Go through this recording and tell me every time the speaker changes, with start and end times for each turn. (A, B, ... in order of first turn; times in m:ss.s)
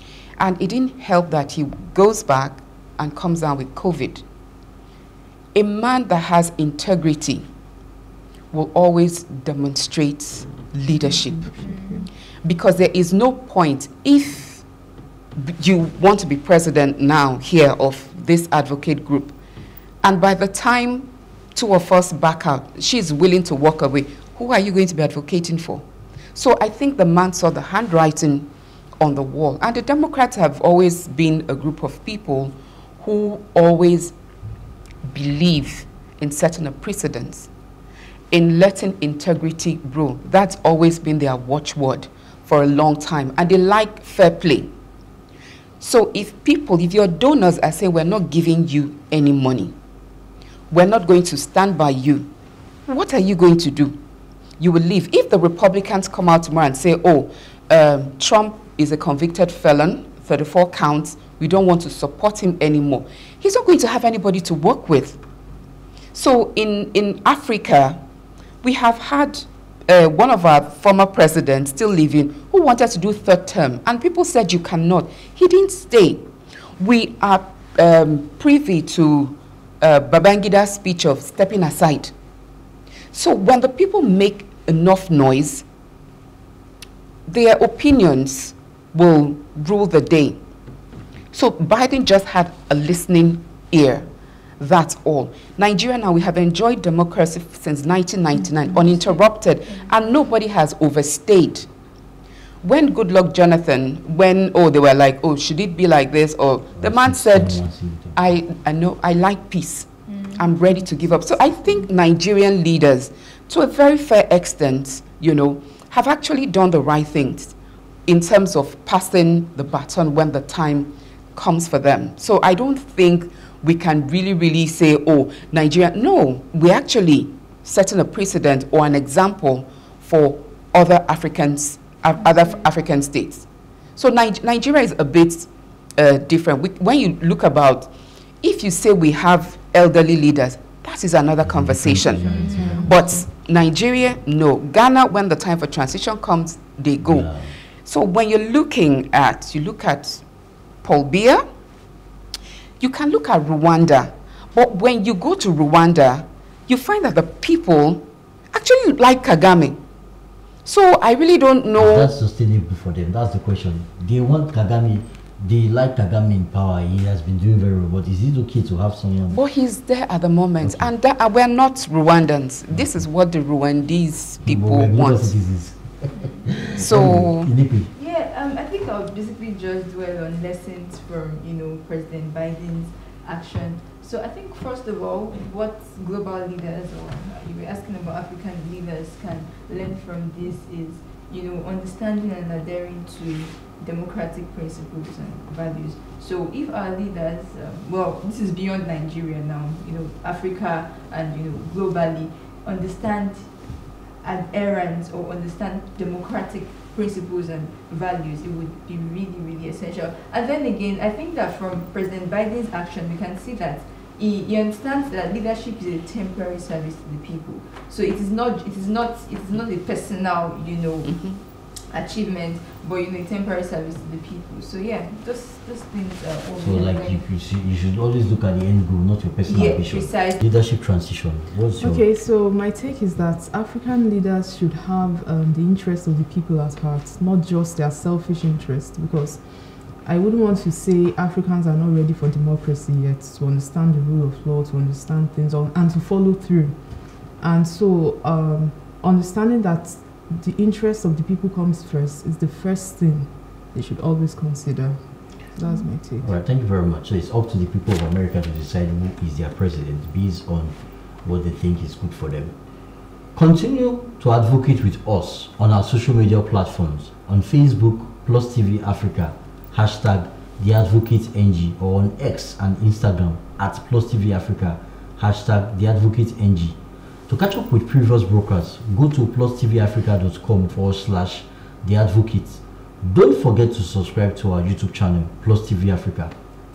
0:00.4-0:04.2 A
0:05.6-0:07.5 A
0:08.5-0:11.6 A
0:11.4-0:12.0 B
0:11.6-0:12.0 C
0:12.4-0:14.6 A
0:15.4-0:19.4 A
0:20.0-0:34.2 A
0:35.1-0:37.5 A
0:38.3-0:44.7 A
0:45.8-0:49.8 A
0:50.7-0:52.3 A
0:52.9-0:54.0 A
0:54.6-1:05.2 A
1:06.1-1:08.0 A
1:08.6-1:22.1 A
1:23.1-1:25.6 A
1:27.3-1:30.4 A
1:31.3-1:34.1 A
1:34.6-1:41.7 A
1:42.6-1:47.6 A
1:46.8-1:48.2 D
1:48.1-1:57.6 A
1:50.3-1:51.8 C
1:58.1-2:27.3 A
2:21.4-2:22.8 D
2:22.2-2:23.2 B
2:22.3-2:22.9 C
2:27.0-2:27.5 D
2:27.8-2:30.2 A
2:30.8-2:31.4 A
2:32.8-2:39.8 A
2:40.6-2:42.1 A
2:41.8-2:49.4 D
2:49.3-2:55.3 A
2:50.6-2:50.9 D
2:54.4-2:57.9 D
2:56.8-2:57.5 A
2:57.9-3:23.6 C
3:24.2-3:47.2 C
3:41.1-3:41.3 A
3:46.6-3:52.0 D
3:49.4-3:50.4 C
3:51.8-4:16.3 B
4:16.2-4:22.5 D
4:23.4-4:36.8 D
4:37.3-4:46.3 D